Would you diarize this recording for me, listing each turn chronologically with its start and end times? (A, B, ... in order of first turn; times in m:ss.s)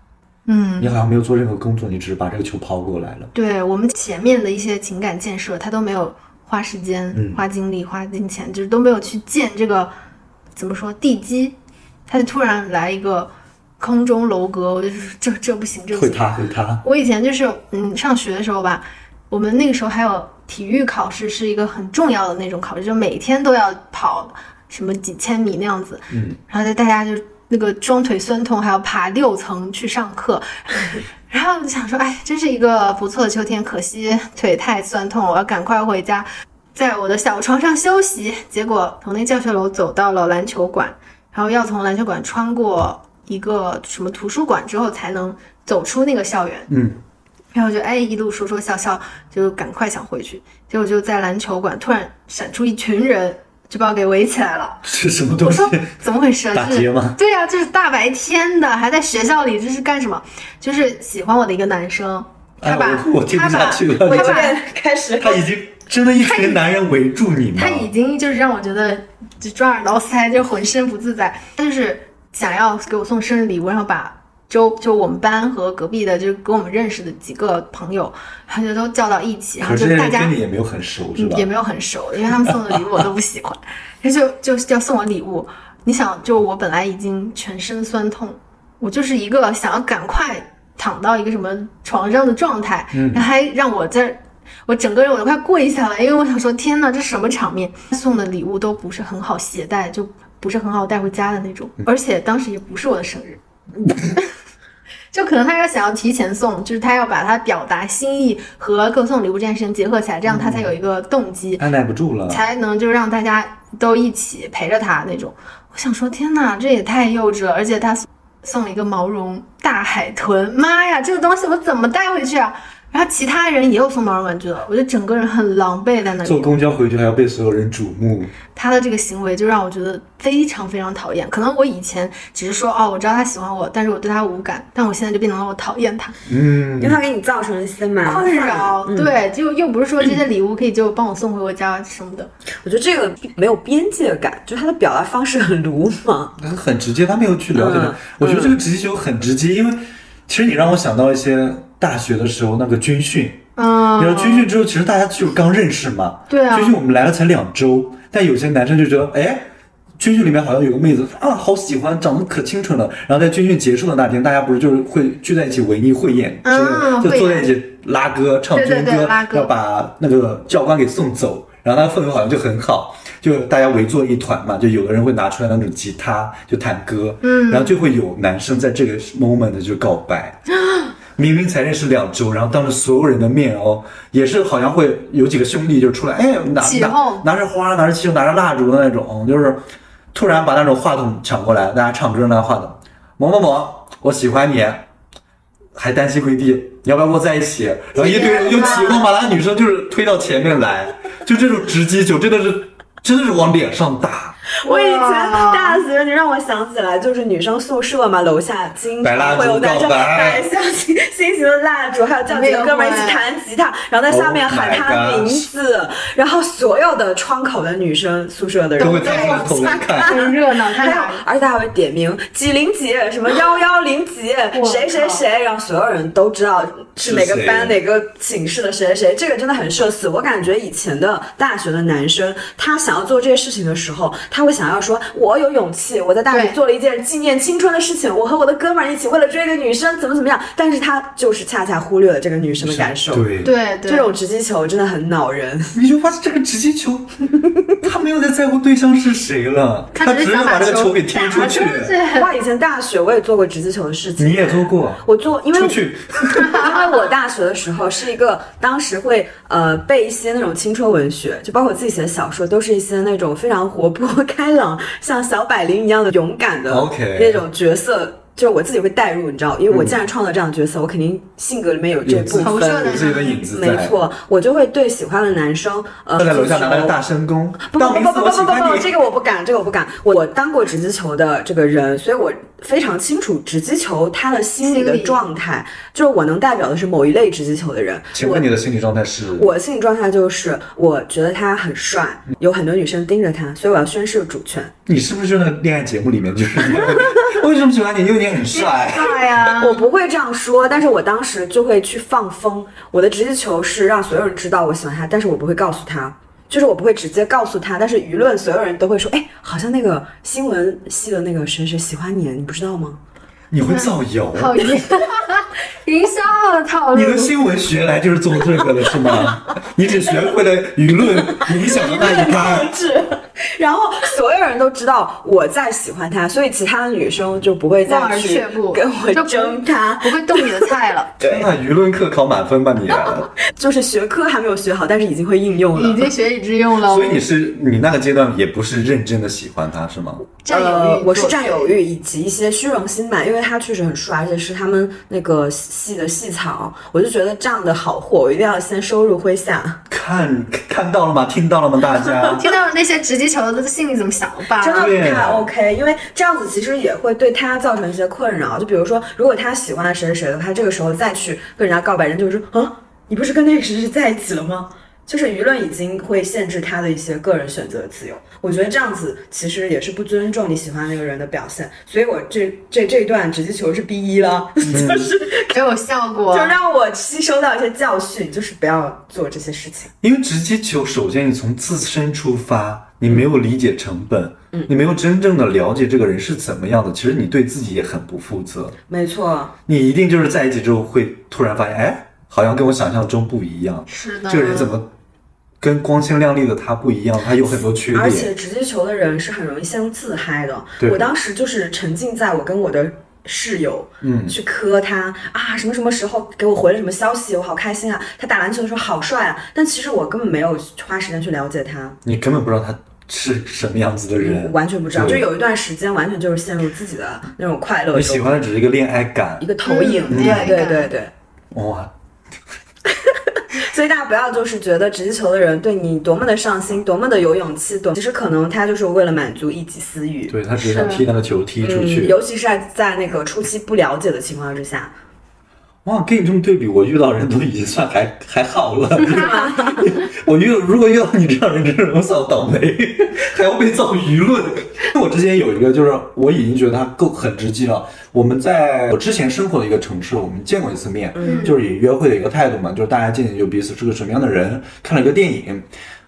0:00.5-0:01.0 A
0:00.8-0:03.3 B
0:03.3-0:09.9 A
0:07.1-0:07.4 B
0:10.6-0:11.6 A
0:12.1-0:46.7 A
0:15.9-0:16.8 B
0:26.1-0:26.4 B
0:46.7-0:47.0 B
0:47.5-0:54.8 A
0:54.8-0:55.9 B
0:55.4-1:04.6 A
0:56.5-0:57.2 B
1:02.6-1:04.5 B
1:04.0-1:05.4 C
1:05.2-1:07.9 B
1:06.2-1:06.6 A
1:07.6-1:20.4 A
1:19.6-1:21.5 B
1:21.2-1:43.4 A
1:32.9-1:33.3 B
1:45.1-1:51.6 A
1:50.3-1:50.7 B
1:51.6-1:52.4 B
1:52.3-2:06.6 A
2:06.2-2:08.3 B
2:08.6-2:16.2 A
2:16.3-2:17.0 B
2:16.8-2:19.1 C
2:18.0-2:22.3 A
2:22.6-2:26.4 C
2:26.4-2:33.4 B
2:27.6-2:28.6 C
2:33.6-2:34.5 A
2:34.0-2:39.5 B
2:36.3-2:36.8 A
2:40.0-3:00.4 B
2:46.4-2:47.5 A
2:48.5-2:49.5 A
2:57.2-2:57.8 A
3:01.2-3:14.9 B
3:06.6-3:07.2 A
3:15.8-3:24.4 B
3:18.0-3:19.0 A
3:18.1-3:18.9 C
3:24.5-4:03.3 C
3:24.6-3:25.8 A
3:29.0-3:30.5 B
3:32.3-3:33.2 A
3:34.1-3:35.5 B
3:38.8-3:41.2 A
3:38.8-3:40.2 B
3:44.5-3:45.2 A
3:47.0-3:47.8 B
3:56.3-3:56.6 A
4:02.6-4:03.5 B
4:03.4-4:04.1 A
4:03.9-4:05.8 C
4:05.7-4:12.0 B
4:10.0-4:12.4 A
4:12.1-4:37.0 C
4:14.2-4:16.6 B
4:26.7-4:27.4 B
4:29.7-4:30.0 B
4:32.0-4:34.0 B
4:32.3-4:33.5 A
4:36.2-4:38.9 B
4:37.6-4:48.5 C
4:44.6-4:45.3 A
4:48.1-4:49.5 B
4:49.4-4:54.7 C
4:54.9-4:59.4 B
4:58.5-4:59.9 A
4:59.6-5:13.0 C
5:13.5-5:14.8 B
5:13.6-5:17.3 A
5:16.9-5:22.7 B
5:21.4-5:31.5 C
5:27.8-5:31.1 A
5:31.2-5:33.3 B
5:33.4-5:36.1 C
5:35.7-5:37.2 A
5:36.8-5:40.3 B
5:40.4-5:41.7 A
5:40.5-5:49.8 C
5:49.9-5:52.5 B
5:52.2-5:54.9 A
5:54.6-6:15.5 C
5:54.8-5:55.5 B
6:14.7-6:15.1 B
6:15.4-6:16.6 A
6:16.3-6:19.9 C
6:20.0-6:28.8 B
6:28.9-6:29.5 C
6:29.7-6:34.9 B
6:33.9-6:34.8 A
6:35.6-6:38.3 B
6:37.9-6:52.0 C
6:40.8-6:41.1 B
6:44.0-6:44.4 B
6:52.0-6:55.3 B
6:54.2-6:58.3 C
6:57.9-6:59.5 B
6:59.4-7:01.1 C
6:59.6-7:00.9 A
7:00.1-7:00.6 B
7:01.5-7:01.9 B
7:02.9-7:10.3 C
7:10.3-7:12.2 B
7:10.6-7:11.0 A
7:11.6-7:14.9 C
7:15.8-7:35.7 B
7:19.0-7:19.8 C
7:31.2-7:31.5 C
7:31.2-7:31.6 A